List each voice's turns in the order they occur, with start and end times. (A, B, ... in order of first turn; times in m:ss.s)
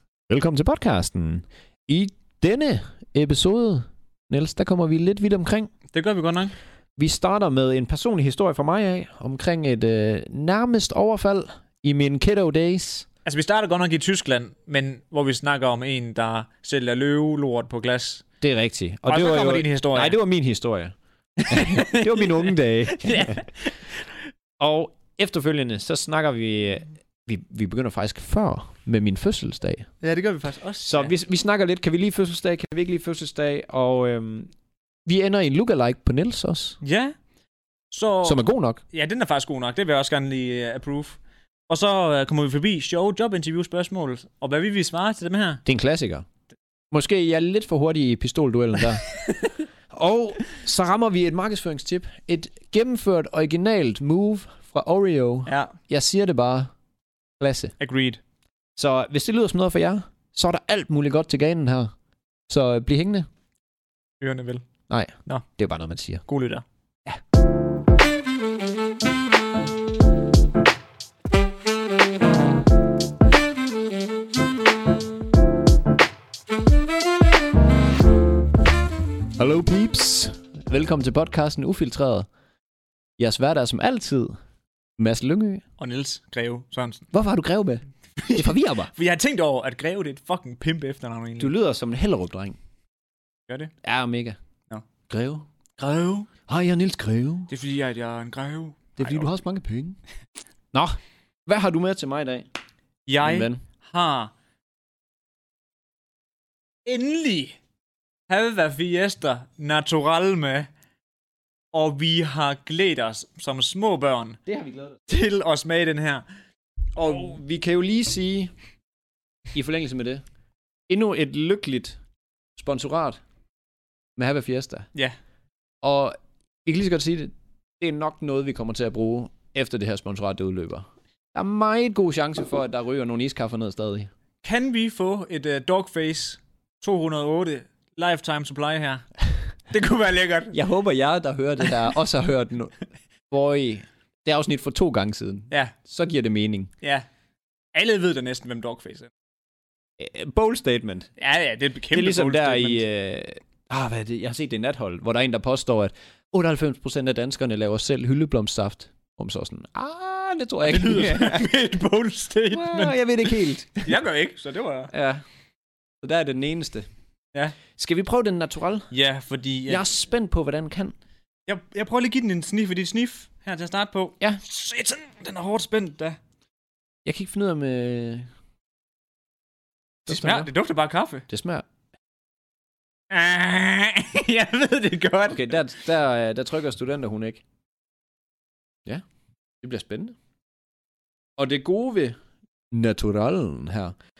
0:00.3-0:05.7 A
0:05.9-0:06.6 B
0:07.0-0:13.0 A
0:13.2-0:18.2 B
0:18.4-0:20.9 A
0:19.1-0:20.2 B
0:21.4-0:24.2 B
0:21.5-0:23.4 A
0:24.6-0:29.9 A
0:30.0-0:31.1 B
0:30.8-0:34.5 A
0:35.0-0:36.8 A
0:36.8-0:37.1 B
0:37.9-0:45.6 B
0:38.2-0:38.8 A
0:45.6-0:46.2 A
0:46.9-0:49.0 A
0:49.2-0:49.6 B
0:49.9-0:56.7 A
0:55.4-0:55.7 B
0:57.4-0:57.7 A
0:57.8-0:58.2 B
0:58.8-1:01.9 A
1:02.5-1:03.3 A
1:04.2-1:04.6 B
1:04.9-1:06.2 A
1:06.3-1:06.6 B
1:19.4-1:22.3 A
1:23.2-1:24.4 A
1:25.0-1:25.6 A
1:25.8-1:27.1 B
1:27.1-1:28.9 A
1:28.2-1:31.5 B
1:31.4-1:32.6 A
1:33.8-1:34.4 A
1:35.1-1:35.5 A
1:35.8-1:36.3 B
1:36.5-1:37.5 A
1:37.5-1:39.3 B
1:39.0-1:40.0 A
1:40.7-1:42.5 A
1:43.0-1:44.3 B
1:43.2-1:43.6 A
1:46.8-1:47.6 B
1:48.3-1:50.7 B
1:51.7-1:54.4 B
1:54.5-1:55.1 A
1:55.1-1:56.2 B
1:57.0-1:58.5 A
1:59.5-2:00.2 A
2:00.9-2:02.0 A
2:02.6-2:03.2 A
2:04.2-2:04.9 A
2:05.8-2:14.1 A
2:14.4-2:19.0 B
2:19.7-2:20.6 B
2:20.5-2:22.7 A
2:23.3-2:26.7 A
2:27.7-2:29.1 B
2:30.0-2:31.1 A
2:31.2-2:32.8 B
2:31.9-2:41.4 A
2:40.6-2:44.9 B
2:42.5-2:43.9 A
2:44.9-2:45.2 A
2:46.0-2:46.9 A
2:47.7-2:48.9 A
2:48.9-2:49.8 B
2:49.7-2:50.9 A
2:51.5-2:56.2 B
2:57.0-2:58.3 A
3:00.0-3:00.5 A
3:00.1-3:01.2 B
3:01.3-3:01.6 A
3:03.1-3:05.5 B
3:05.3-3:07.4 A
3:09.6-3:10.2 A
3:11.4-3:12.1 A
3:12.7-3:13.9 A